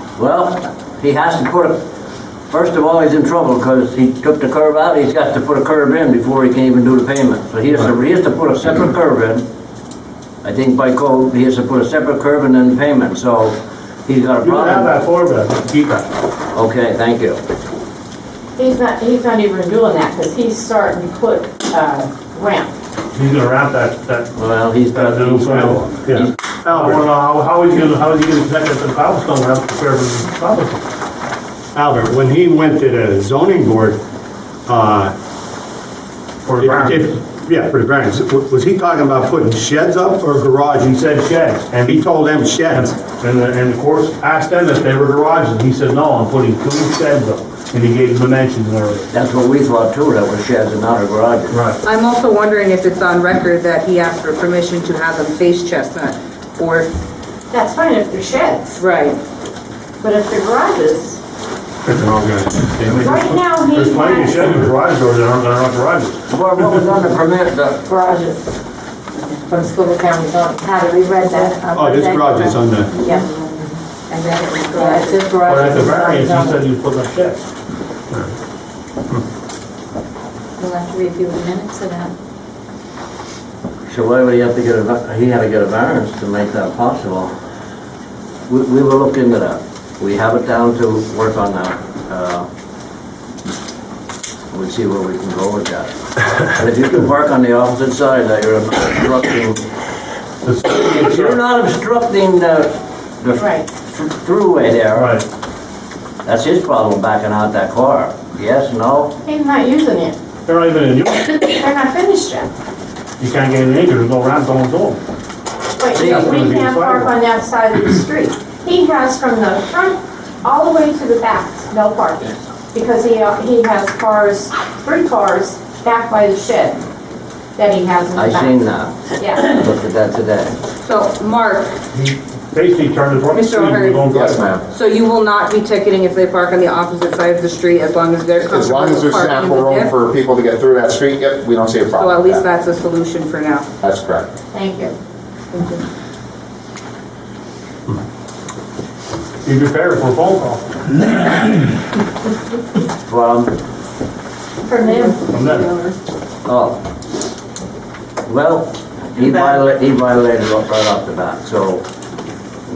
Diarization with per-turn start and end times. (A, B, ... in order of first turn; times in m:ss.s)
0:00.2-0:01.8 A
0:02.5-0:09.4 A
0:10.4-0:14.9 A
0:14.4-0:16.1 B
0:16.5-0:17.4 A
0:18.6-0:22.7 C
0:23.1-0:30.8 B
0:24.4-0:26.4 A
0:26.1-0:27.0 D
0:31.7-0:34.0 D
0:34.7-0:35.1 D
0:36.4-0:37.2 B
0:36.6-0:40.9 D
0:40.8-0:42.1 B
0:41.8-0:42.9 D
0:42.7-0:49.1 B
0:49.1-0:51.6 A
0:51.5-0:51.8 B
0:51.8-0:56.9 E
0:57.5-0:58.8 C
0:58.8-0:59.2 E
1:00.0-1:01.2 C
1:01.9-1:03.3 D
1:02.8-1:06.2 B
1:03.0-1:04.6 C
1:06.3-1:07.9 A
1:07.9-1:08.4 F
1:09.2-1:16.6 F
1:11.7-1:12.9 D
1:15.4-1:17.4 B
1:20.6-1:22.1 F
1:23.9-1:27.3 A
1:28.5-1:32.5 A
1:34.5-1:39.6 A
1:40.4-1:41.4 B
1:40.7-1:45.2 A
1:43.4-1:43.7 C
1:44.9-1:45.2 B
1:46.2-1:49.2 A
1:49.2-1:50.2 C
1:50.5-1:51.4 B
1:51.6-1:52.5 C
1:53.2-1:55.0 B
1:55.8-2:06.8 C
1:55.9-1:56.5 A
1:56.0-1:57.1 B
2:07.6-2:09.5 C
2:08.1-2:10.6 A
2:10.8-2:11.8 E
2:11.9-2:14.5 B
2:13.3-2:14.0 E
2:14.1-2:14.6 G
2:14.7-2:19.9 E
2:18.4-2:22.4 G
2:21.9-2:23.7 E
2:23.8-2:24.3 G
2:24.5-2:25.0 C
2:29.4-2:30.7 B
2:33.1-2:33.5 A
2:34.6-2:35.2 C
2:35.3-2:35.7 B
2:36.5-2:36.8 A
2:38.3-2:41.8 A